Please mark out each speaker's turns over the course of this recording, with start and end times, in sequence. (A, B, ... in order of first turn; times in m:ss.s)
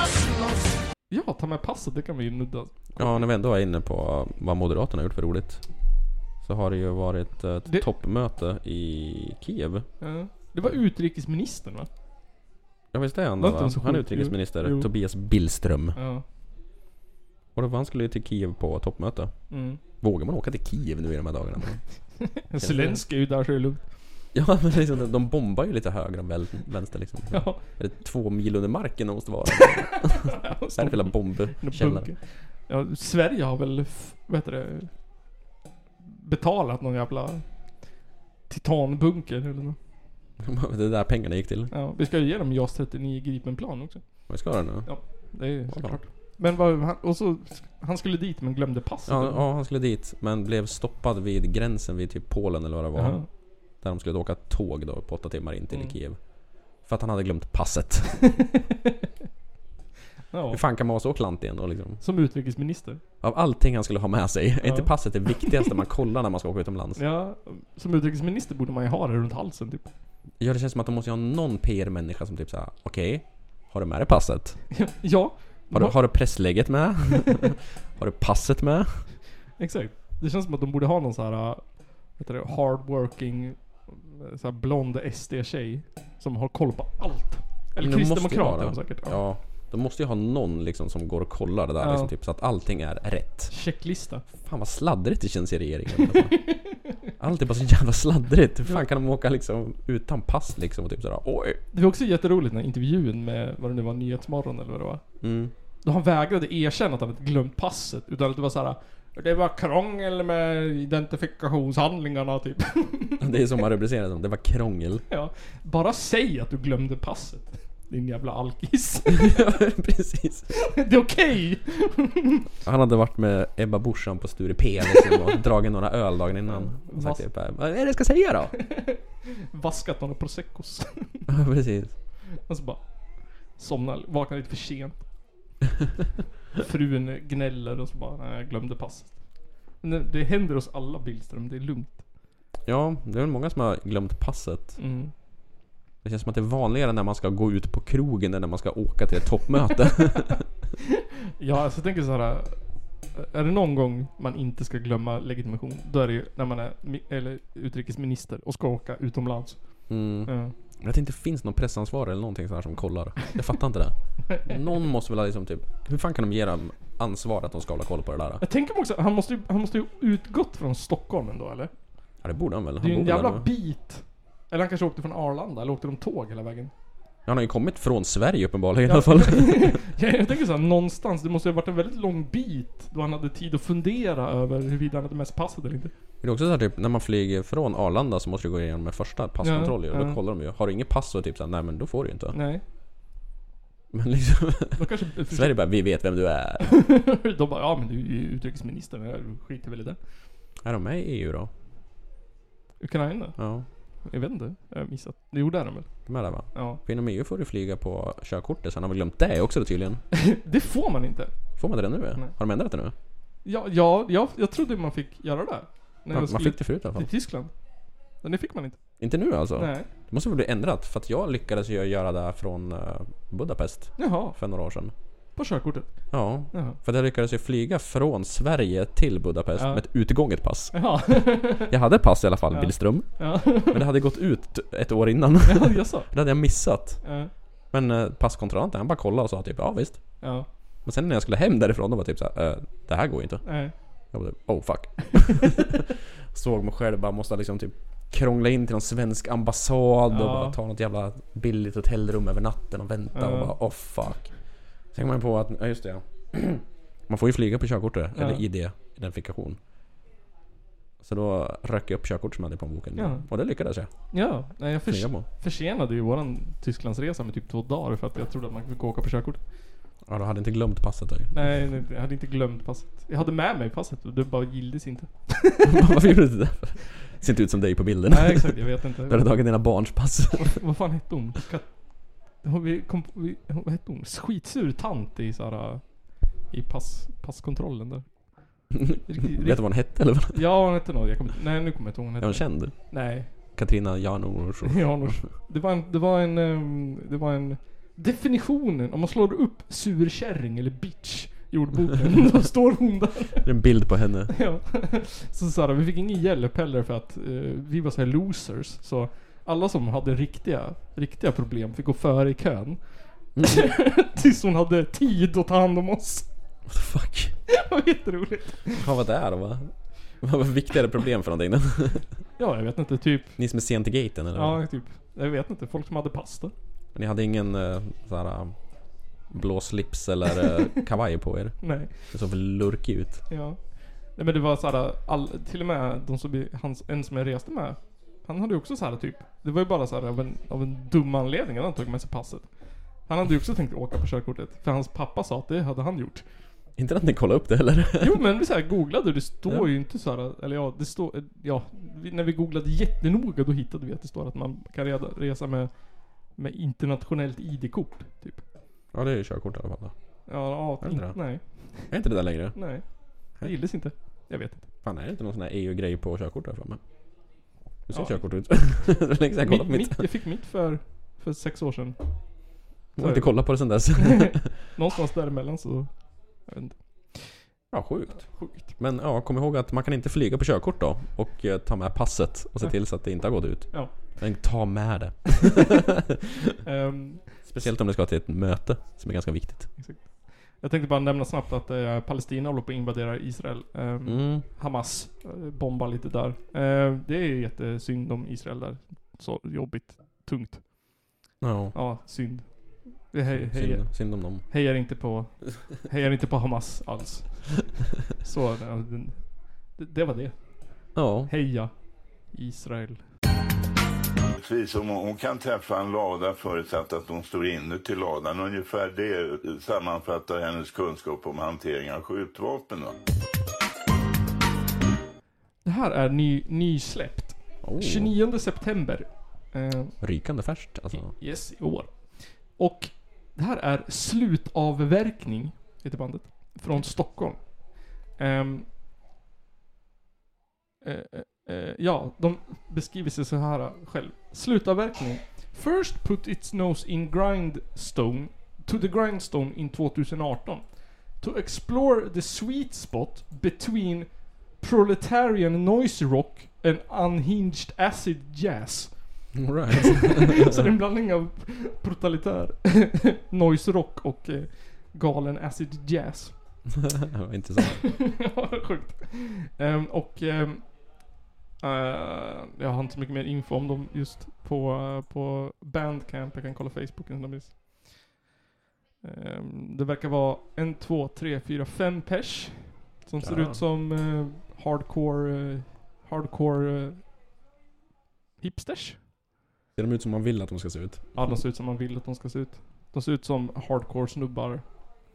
0:01.1-0:03.2 A
0:03.0-0:05.7 B
0:06.4-0:09.9 B
0:10.0-0:11.9 A
0:12.9-0:16.0 B
0:13.4-0:14.9 A
0:16.0-0:16.2 A
0:17.6-0:21.8 B
0:19.5-0:19.8 A
0:22.2-0:23.9 A
0:22.6-0:23.0 B
0:24.3-0:32.1 B
0:27.3-0:27.6 A
0:29.6-0:34.9 A
0:36.0-0:37.4 A
0:38.5-0:39.8 A
0:40.4-0:41.7 B
0:41.7-0:49.4 A
0:44.3-0:45.1 B
0:45.7-0:46.0 B
0:49.0-0:58.3 B
0:53.0-0:53.3 A
0:55.7-0:56.0 A
1:00.3-1:00.6 A
1:00.5-1:02.0 B
1:02.0-1:03.0 A
1:03.2-1:07.0 B
1:04.6-1:05.5 A
1:07.0-1:09.9 A
1:10.4-1:14.6 B
1:14.7-1:16.0 A
1:15.7-1:19.0 B
1:19.6-1:29.2 A
1:27.8-1:33.5 B
1:31.8-1:32.1 A
1:33.5-1:34.2 A
1:34.3-1:36.5 B
1:36.0-1:36.9 A
1:37.2-1:41.6 B
1:41.7-1:45.0 A
1:45.2-1:45.5 B
1:45.8-1:53.2 A
1:53.2-1:55.0 B
1:55.1-1:59.4 A
1:59.1-2:00.5 B
2:00.5-2:02.4 A
2:02.6-2:08.6 B
2:06.5-2:07.2 A
2:08.6-2:11.2 A
2:11.3-2:12.0 B
2:12.4-2:15.0 A
2:16.6-2:22.0 A
2:22.6-2:24.8 B
2:24.8-2:25.1 A
2:26.0-2:30.4 B
2:31.4-2:40.5 A
2:39.9-2:48.4 B
2:44.3-2:44.6 A
2:48.4-2:51.7 A
2:52.2-2:53.5 B
2:52.8-2:56.7 A
2:57.3-2:59.8 B
2:58.9-3:05.9 A
3:06.2-3:12.4 B
3:09.4-3:10.2 A
3:12.3-3:12.6 A
3:13.9-3:16.8 B
3:14.8-3:15.6 A
3:16.7-3:20.0 A
3:20.6-3:21.5 B
3:22.8-3:25.9 A
3:23.4-3:23.7 B
3:26.0-3:30.0 B
3:26.5-3:26.8 A
3:30.1-3:31.3 A
3:31.6-3:32.9 B
3:33.4-3:37.5 A
3:36.1-3:37.1 B
3:38.1-3:38.8 A
3:39.0-3:44.9 B
3:39.6-3:39.9 A
3:44.0-3:44.4 A
3:45.4-3:46.8 A
3:46.1-3:57.1 B
3:49.6-3:49.8 A
3:50.7-3:51.7 A
3:52.5-3:53.8 A
3:55.4-3:56.1 A
3:57.0-3:57.3 A
3:57.7-4:14.3 B
4:00.2-4:00.4 A
4:03.4-4:03.7 A
4:10.1-4:10.6 A
4:13.1-4:13.6 A
4:14.9-4:19.6 B
4:18.1-4:18.4 A
4:21.0-4:23.9 B
4:23.0-4:23.3 A
4:24.1-4:29.4 A
4:24.9-4:25.3 B
4:30.0-4:31.5 B
4:31.3-4:36.0 A
4:35.6-4:40.6 B
4:38.1-4:39.3 A
4:40.4-4:53.3 A
4:48.7-4:50.5 B
4:52.2-4:55.3 B
4:54.6-5:03.5 A
5:03.4-5:04.4 B
5:04.3-5:16.3 A
5:13.4-5:13.7 B
5:16.7-5:17.3 B
5:17.5-5:18.9 A
5:18.8-5:22.1 B
5:22.4-5:23.4 A
5:23.4-5:24.6 B
5:24.3-5:26.5 A
5:27.0-5:28.6 B
5:29.3-5:33.2 B
5:31.6-5:32.1 A
5:33.3-5:46.2 A
5:46.8-5:48.2 B
5:48.0-5:58.4 A
5:58.9-5:59.9 B
6:00.3-6:01.9 A
6:00.8-6:02.7 B
6:02.6-6:04.7 A
6:04.8-6:06.8 B
6:07.9-6:10.0 B
6:07.9-6:08.2 A
6:09.4-6:12.0 A
6:13.0-6:14.5 B
6:13.0-6:17.5 A
6:17.7-6:26.0 B
6:18.2-6:18.7 A
6:23.7-6:24.2 A
6:26.6-6:27.6 A
6:27.4-6:29.7 B
6:29.8-6:41.2 A
6:34.0-6:34.4 B
6:41.4-6:41.8 B
6:41.7-6:53.0 A
6:43.3-6:44.4 B
6:51.0-6:51.3 B
6:54.4-7:03.0 C
7:05.6-7:10.0 A
7:07.6-7:08.1 B
7:10.0-7:11.1 B
7:10.9-7:18.7 A
7:20.8-7:46.3 A
7:39.3-7:40.7 B
7:46.7-7:47.9 B
7:47.8-7:50.9 A
7:51.6-7:58.2 A
7:59.0-8:07.1 A
8:03.2-8:03.6 B
8:08.4-8:09.0 A
8:09.7-8:11.3 B
8:11.2-8:14.8 A